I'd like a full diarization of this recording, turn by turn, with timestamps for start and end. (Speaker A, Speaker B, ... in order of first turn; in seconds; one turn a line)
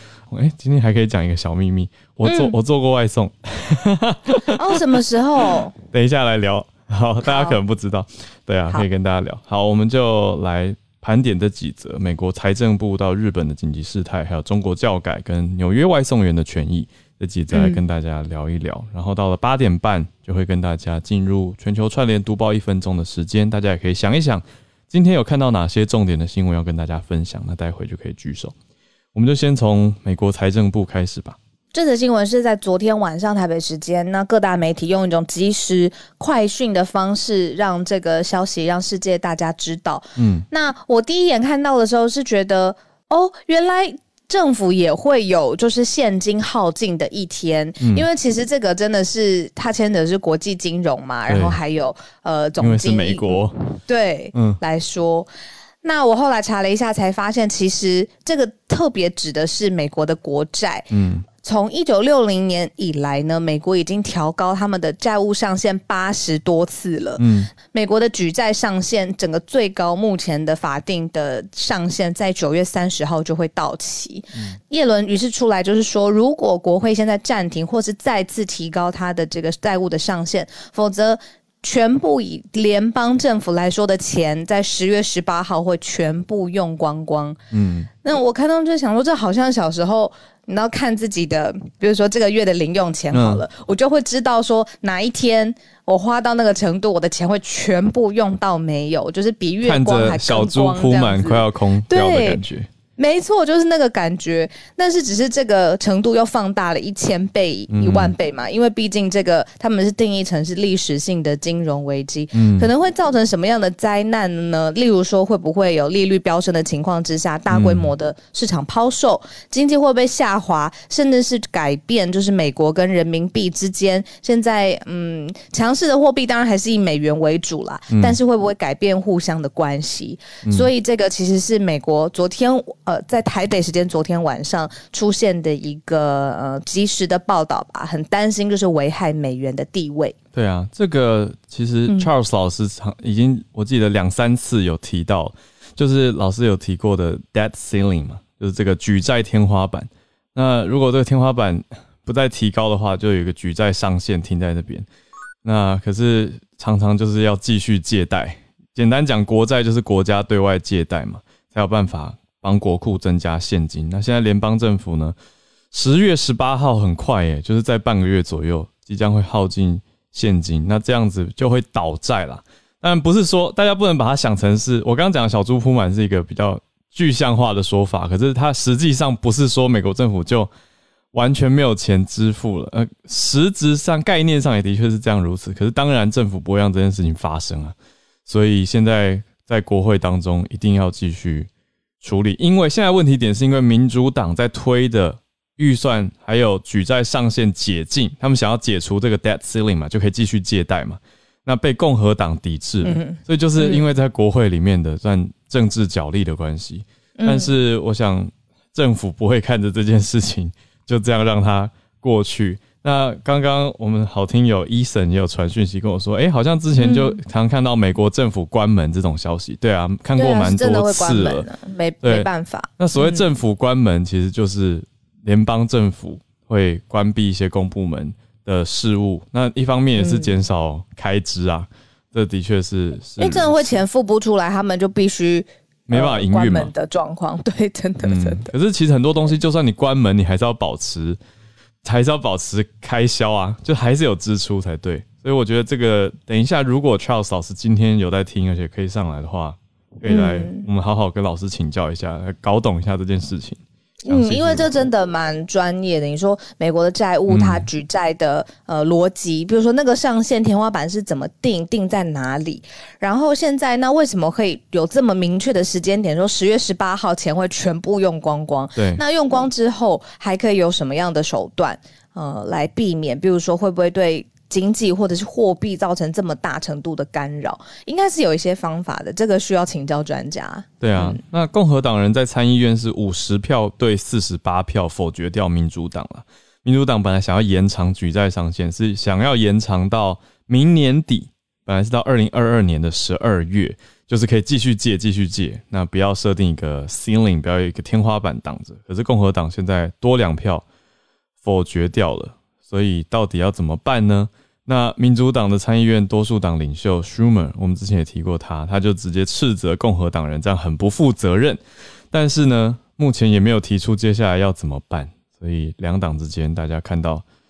Speaker A: 0.3-5.0
Speaker B: 2.2-2.6
Speaker B: 4.5-5.7
Speaker A: 5.9-28.5
Speaker B: 7.2-7.6
Speaker B: 17.5-17.8
Speaker A: 29.1-31.4
Speaker B: 31.7-55.3
Speaker A: 40.2-40.4
Speaker A: 47.8-48.0
Speaker A: 51.3-51.6
Speaker A: 52.6-53.6
Speaker A: 54.3-54.6
Speaker B: 55.8-60.9
Speaker A: 60.9-61.2
Speaker B: 61.4-87.4
Speaker A: 67.2-67.5
Speaker A: 74.3-74.6
Speaker A: 87.5-87.9
Speaker B: 88.0-102.4
Speaker A: 93.1-93.4
Speaker A: 99.6-102.7
Speaker B: 103.0-140.1
Speaker A: 107.7-108.1
Speaker A: 112.3-112.7
Speaker A: 117.5-117.9
Speaker A: 127.9-128.2
Speaker A: 130.4-130.7
Speaker A: 140.3-154.9
Speaker A: 155.4-165.2
Speaker A: 165.7-180.5
Speaker A: 181.1-187.7
Speaker A: 188.2-191.5
Speaker A: 192.0-221.5
Speaker B: 202.8-203.9
Speaker B: 207.2-207.5
Speaker B: 216.7-217.2
Speaker B: 220.2-223.2
Speaker A: 222.0-233.8
Speaker B: 229.9-230.4
Speaker B: 233.2-238.5
Speaker A: 235.9-236.7
Speaker A: 238.0-241.2
Speaker A: 241.8-254.7
Speaker B: 250.1-250.7
Speaker B: 254.1-281.2
Speaker A: 257.3-257.7
Speaker A: 268.7-269.0
Speaker A: 280.8-300.6
Speaker A: 301.4-317.2